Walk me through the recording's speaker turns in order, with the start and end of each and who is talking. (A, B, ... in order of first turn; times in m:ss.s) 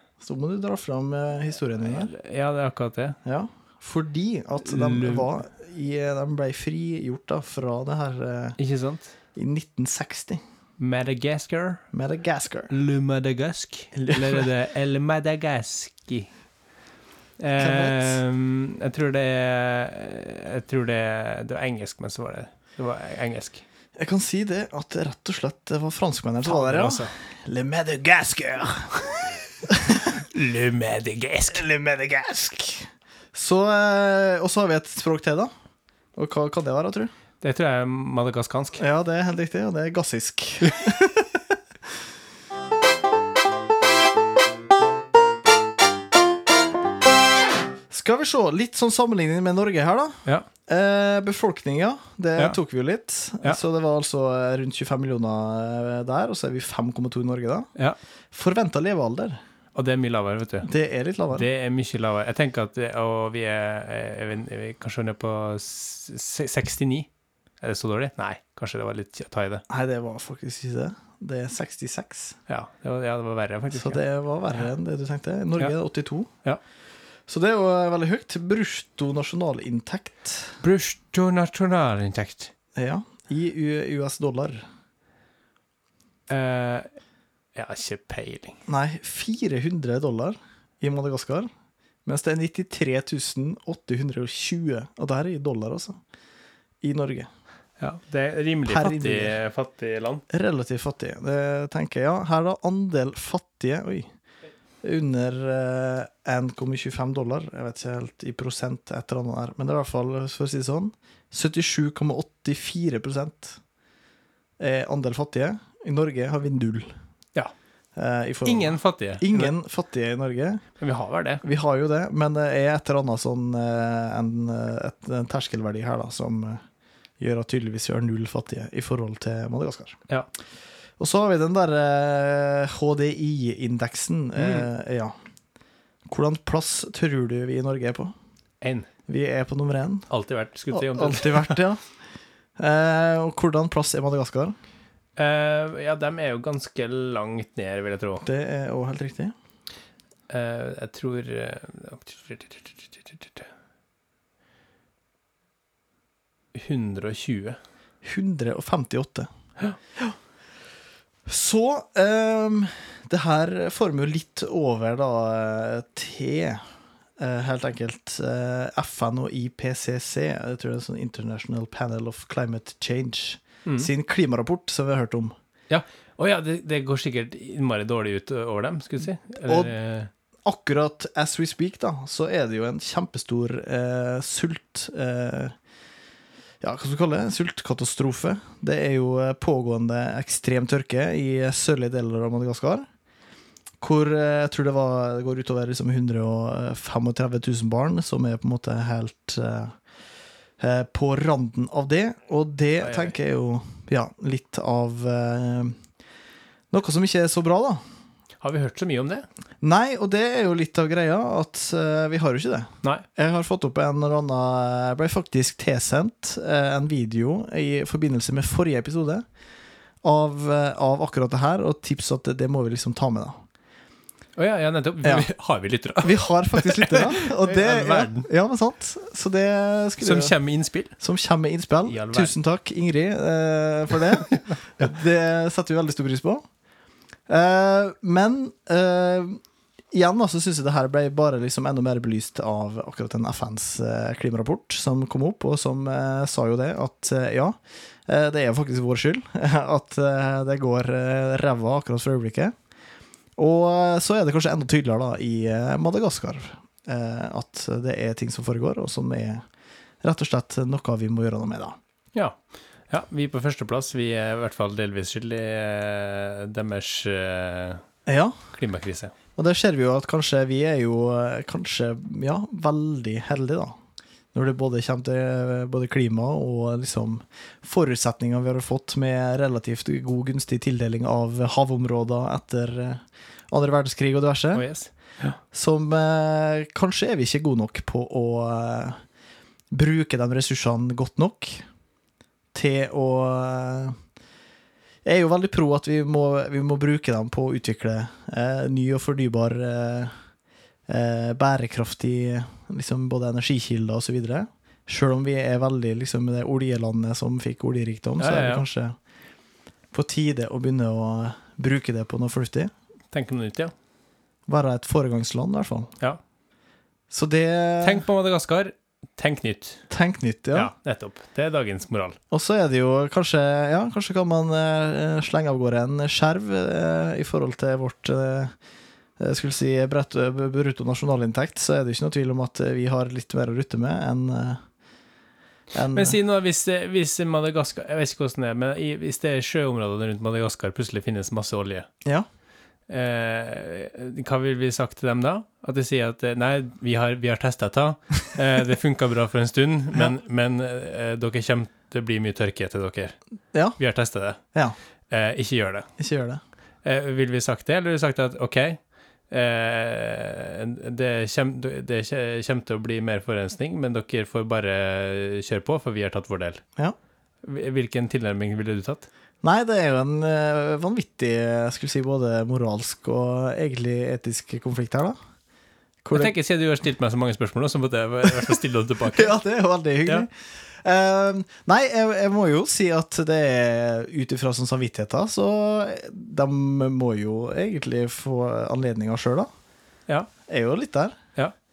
0:00.2-0:02.1 A
0:01.8-0:03.2 B
0:03.2-0:08.6 A
0:04.6-0:05.3 B
0:08.6-0:09.1 B
0:09.3-0:10.4 A
0:10.8-0:11.8 B
0:11.9-0:12.7 A
0:12.7-0:16.3 B
0:13.9-0:14.4 A
0:17.4-0:23.6 B
0:17.6-0:18.2 A
0:24.0-0:30.2 A
0:26.4-0:27.1 B
0:30.1-0:31.6 B
0:31.5-0:35.5 A
0:36.2-0:37.1 A
0:37.4-0:38.8 B
0:38.8-0:41.5 A
0:47.9-0:57.7 A
0:58.3-0:59.4 A
0:59.7-1:00.7 B
1:00.6-1:01.4 A
1:01.3-1:07.1 B
1:07.6-1:09.6 B
1:09.7-1:12.4 A
1:12.5-1:14.0 B
1:13.7-1:16.3 A
1:17.3-1:20.6 A
1:20.6-1:22.5 B
1:22.7-1:24.6 A
1:26.3-1:26.9 B
1:27.5-1:28.6 B
1:28.7-1:31.5 A
1:32.0-1:36.0 A
1:36.8-1:37.3 A
1:37.8-1:40.2 B
1:38.7-1:39.4 A
1:40.3-1:44.1 A
1:44.8-1:53.6 A
1:54.6-1:56.9 A
1:58.0-2:00.6 A
1:58.4-1:59.5 B
2:00.8-2:01.4 B
2:01.4-2:06.6 A
2:07.2-2:10.0 A
2:11.0-2:15.1 A
2:14.4-2:14.7 B
2:16.1-2:18.1 A
2:18.6-2:18.9 B
2:19.1-2:20.1 A
2:20.1-2:21.6 B
2:20.7-2:21.8 A
2:22.6-2:24.6 A
2:25.2-2:28.2 B
2:28.2-2:29.3 A
2:30.3-2:33.5 B
2:36.5-2:37.6 B
2:38.0-2:39.3 A
2:41.2-2:46.6 A
2:47.2-2:55.3 A
2:55.7-3:00.1 B
2:59.4-2:59.7 A
3:00.4-3:05.5 A
3:06.6-3:12.8 A
3:13.8-3:19.8 A
3:20.6-3:25.8 A
3:22.8-3:23.1 B
3:26.7-3:27.8 A
3:28.4-3:29.2 B
3:29.6-3:39.2 A
3:40.0-3:43.4 A
3:44.4-3:48.3 B
3:45.0-3:45.3 A
3:46.0-3:50.3 A
3:50.0-3:50.9 B
3:51.0-3:56.4 A
3:51.9-3:52.3 B
3:54.3-3:54.9 B
3:57.3-3:59.4 A
3:59.9-4:12.5 A
4:13.4-4:19.4 A
4:20.0-4:21.8 A
4:22.1-4:27.8 B
4:28.0-4:28.4 A
4:28.5-4:29.1 B
4:29.4-4:33.7 A
4:34.3-4:44.6 A
4:44.5-4:45.4 B
4:45.5-4:49.0 A
4:49.7-4:51.6 A
4:52.5-4:54.0 A
4:55.0-5:00.1 A
5:00.9-5:09.0 A
5:08.2-5:08.6 B
5:09.9-5:12.7 A
5:13.1-5:13.7 B
5:14.5-5:15.9 A
5:17.1-5:18.0 A
5:17.8-5:19.8 B
5:19.9-5:20.7 A
5:20.5-5:22.2 B
5:22.3-5:28.5 A
5:29.2-5:34.6 A
5:35.7-5:36.2 A
5:35.9-5:41.9 B
5:42.9-5:53.2 B
5:53.5-5:53.8 A
5:53.8-5:54.4 B
5:55.1-5:55.9 B
5:56.0-5:56.4 A
5:56.8-6:06.6 B
6:07.4-6:09.1 B
6:09.4-6:15.2 A
6:16.0-6:16.3 A
6:16.1-6:19.3 B
6:19.1-6:29.5 A
6:30.5-6:31.2 A